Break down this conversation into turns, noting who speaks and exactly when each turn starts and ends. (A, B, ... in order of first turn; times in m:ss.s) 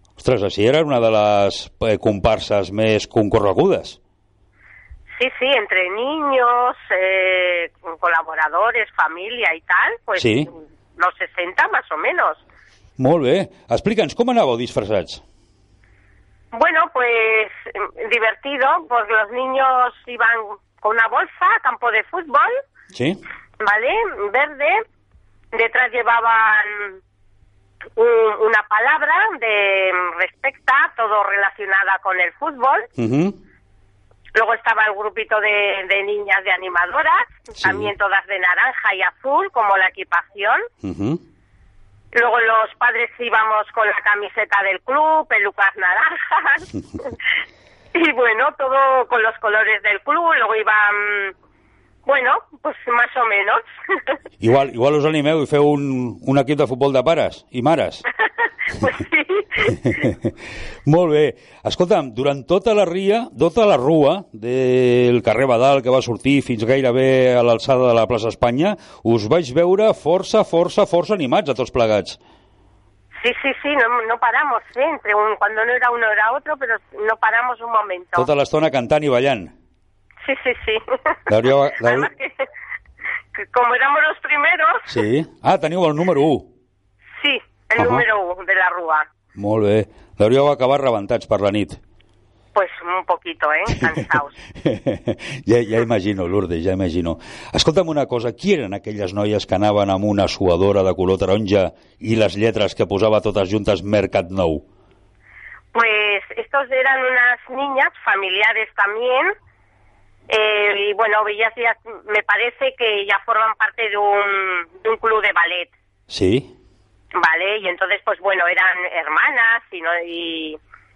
0:00.2-0:04.0 A
0:05.1-0:10.4 B
0:10.2-0:10.5 A
0:11.0-0:12.4 B
0:13.0-0:15.2 A
0:16.5-0:22.6 B
0:22.9-0:23.2 A
0:23.6-0:24.8 B
0:25.5-0:27.0 B
0:28.0-0:32.9 B
0:33.0-0:33.4 A
0:34.3-0:40.7 B
0:37.6-0:37.9 A
0:40.8-0:41.2 A
0:42.1-0:47.1 B
0:47.9-0:51.3 B
0:52.0-0:53.6 B
0:54.4-0:58.0 A
0:58.7-0:59.9 B
0:59.6-1:00.3 A
1:00.8-1:12.2 A
1:13.2-1:18.3 B
1:18.2-1:19.5 A
1:20.2-1:22.4 B
1:21.3-1:22.1 A
1:23.4-1:25.0 B
1:24.9-1:26.5 A
1:27.2-1:29.0 B
1:27.8-1:28.0 A
1:29.3-1:31.8 A
1:32.5-1:34.3 B
1:34.6-1:44.6 A
1:45.7-1:49.3 B
1:50.3-1:55.7 B
1:56.1-1:56.5 A
1:57.2-2:00.6 B